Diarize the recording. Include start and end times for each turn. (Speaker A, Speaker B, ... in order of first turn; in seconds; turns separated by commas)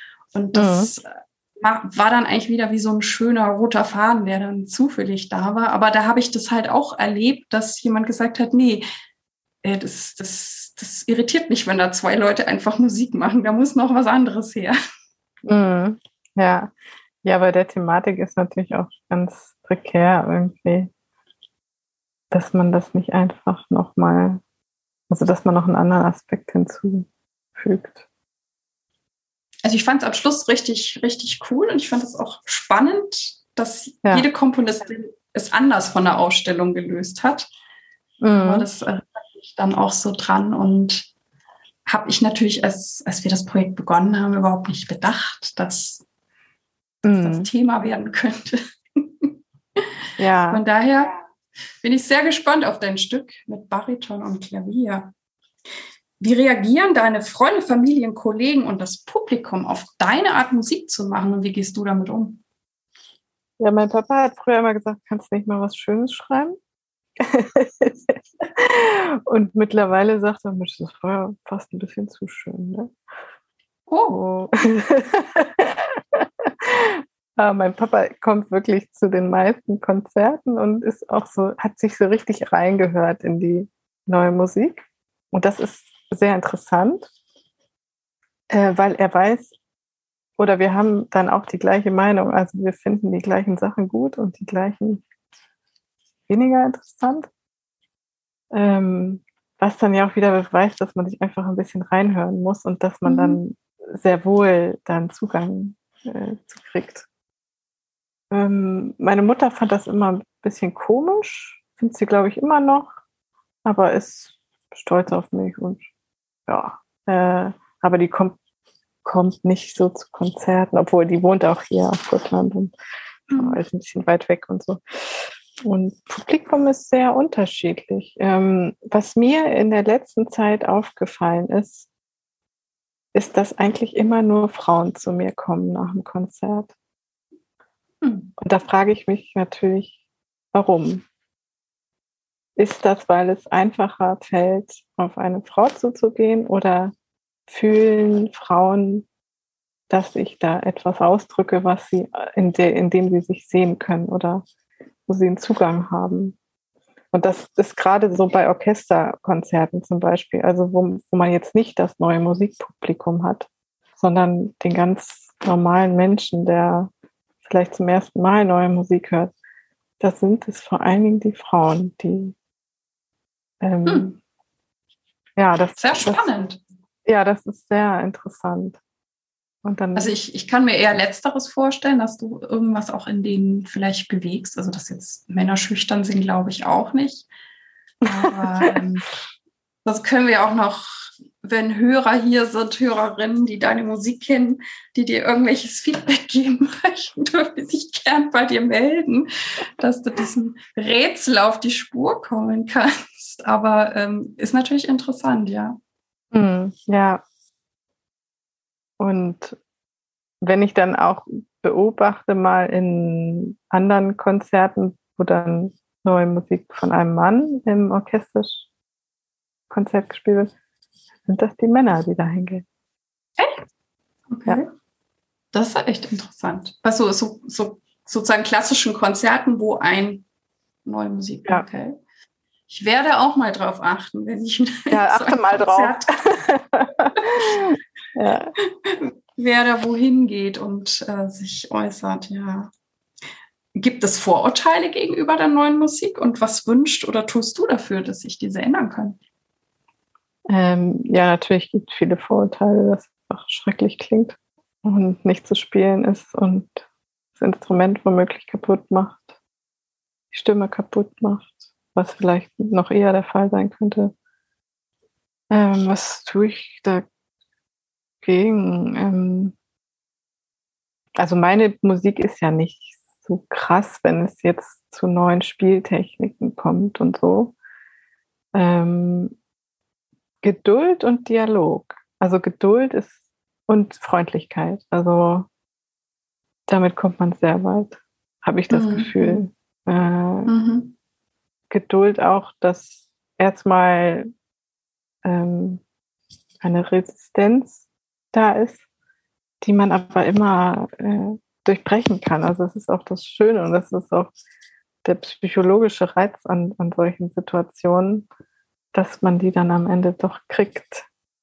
Speaker A: 0.3-8.8, Speaker B: 0.5-0.9, Speaker A: 9.6-14.8, Speaker B: 15.4-16.7, Speaker B: 17.2-20.9, Speaker B: 22.3-24.4, Speaker B: 25.1-28.0, Speaker A: 29.6-37.5, Speaker B: 38.2-38.7, Speaker A: 38.4-41.1, Speaker A: 41.9-46.0, Speaker B: 47.0-47.5, Speaker A: 47.2-49.3, Speaker B: 50.2-50.6, Speaker A: 50.5-51.1, Speaker A: 51.8-55.1, Speaker A: 56.2-62.4, Speaker B: 63.6-66.6, Speaker B: 67.2-72.9, Speaker A: 73.9-74.2, Speaker B: 74.1-87.1, Speaker B: 88.5-89.5, Speaker B: 90.4-95.0, Speaker B: 96.3-97.3, Speaker B: 98.5-107.1, Speaker A: 103.0-103.4, Speaker B: 108.3-112.9, Speaker B: 113.6-115.9, Speaker B: 116.5-118.4, Speaker B: 119.0-122.7, Speaker A: 123.3-123.6, Speaker B: 123.3-131.9, Speaker B: 133.1-136.7, Speaker A: 138.0-138.3, Speaker B: 138.4-140.0, Speaker B: 140.5-141.0, Speaker B: 142.6-146.9, Speaker B: 147.5-149.1, Speaker B: 149.9-154.4, Speaker B: 155.1-156.3, Speaker B: 157.1-166.9, Speaker B: 167.4-169.3, Speaker B: 170.0-172.3, Speaker B: 173.6-174.1, Speaker A: 173.8-174.2, Speaker B: 175.4-176.3, Speaker A: 175.8-176.6, Speaker B: 177.0-178.8, Speaker B: 179.6-180.1, Speaker A: 179.9-187.3, Speaker B: 188.0-188.8, Speaker A: 188.1-189.1, Speaker A: 189.8-205.8, Speaker B: 206.3-207.2, Speaker B: 209.0-209.6, Speaker B: 210.4-218.7, Speaker B: 219.7-220.5, Speaker B: 221.3-222.6, Speaker A: 224.3-224.7, Speaker A: 225.5-230.2, Speaker A: 230.8-232.0, Speaker A: 232.7-236.1, Speaker B: 234.9-238.5, Speaker A: 238.8-242.7, Speaker A: 243.7-249.2, Speaker B: 250.5-256.8, Speaker B: 257.4-259.3, Speaker B: 260.3-264.1, Speaker B: 265.5-267.1, Speaker B: 268.2-269.5, Speaker B: 271.1-277.5, Speaker B: 278.5-279.3, Speaker B: 280.4-283.1, Speaker B: 283.7-285.5, Speaker B: 286.7-290.5, Speaker A: 288.7-289.4, Speaker A: 290.5-290.9, Speaker B: 291.7-294.3, Speaker B: 295.2-295.8, Speaker B: 296.6-298.8, Speaker B: 299.6-304.3, Speaker B: 305.0-308.2, Speaker B: 308.9-311.1